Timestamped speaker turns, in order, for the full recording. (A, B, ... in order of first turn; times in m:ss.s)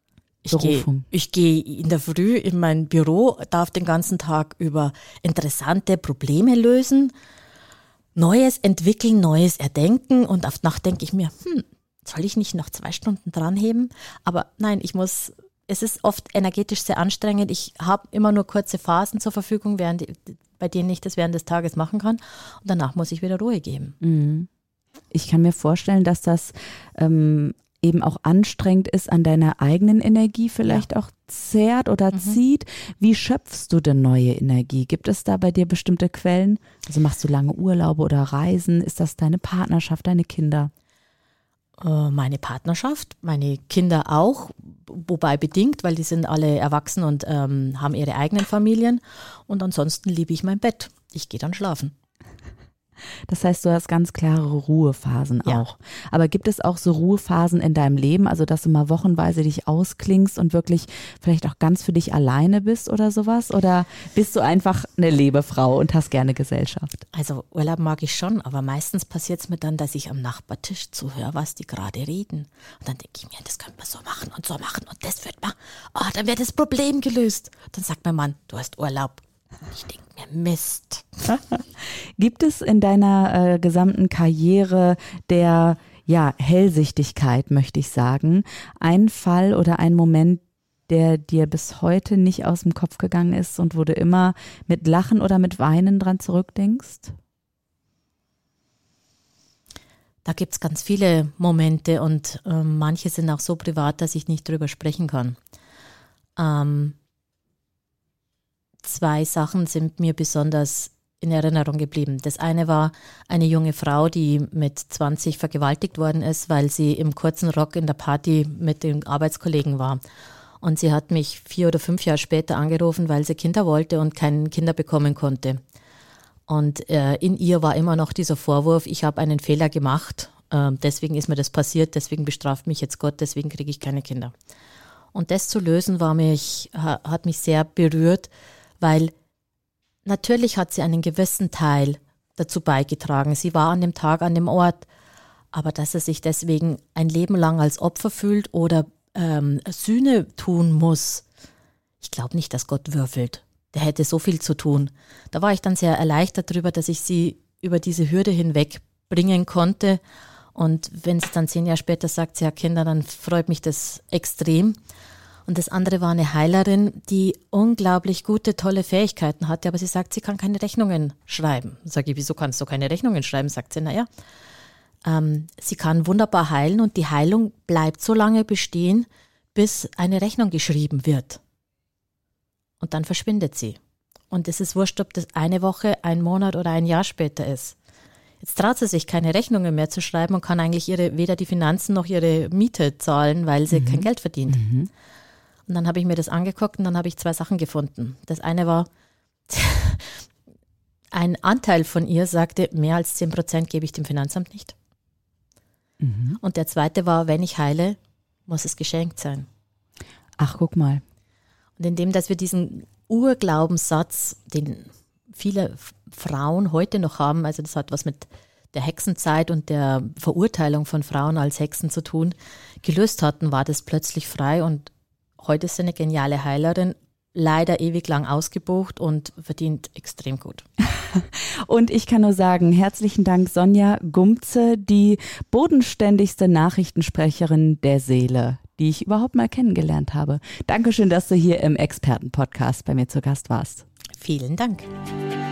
0:00.4-0:07.1 A
0:00.5-0:01.0 B
0:08.1-0:24.0 A
0:24.0-0:24.5 B
0:25.1-0:40.7 B
0:32.1-0:32.4 A
0:41.8-0:51.9 A
0:53.3-1:07.0 B
1:07.1-1:21.2 A
1:22.2-1:37.1 B
1:40.2-1:45.4 A
1:46.4-1:47.0 A
1:48.8-2:00.0 A
2:00.6-2:05.6 A
2:06.5-2:14.3 A
2:15.1-2:19.1 A
2:20.0-2:24.9 A
2:25.5-2:31.2 A
2:32.0-2:40.0 A
2:40.5-2:44.8 A
2:45.4-2:54.1 A
2:55.0-3:01.4 A
3:02.8-3:03.8 A
3:04.3-3:07.8 A
3:08.4-3:14.6 A
3:13.7-3:14.9 B
3:15.7-3:18.9 A
3:19.5-3:20.2 A
3:21.1-3:24.7 A
3:26.0-3:26.4 B
3:26.4-3:29.5 A
3:30.4-3:31.0 B
3:31.8-3:50.6 A
3:51.1-4:03.8 B
4:04.2-4:04.9 A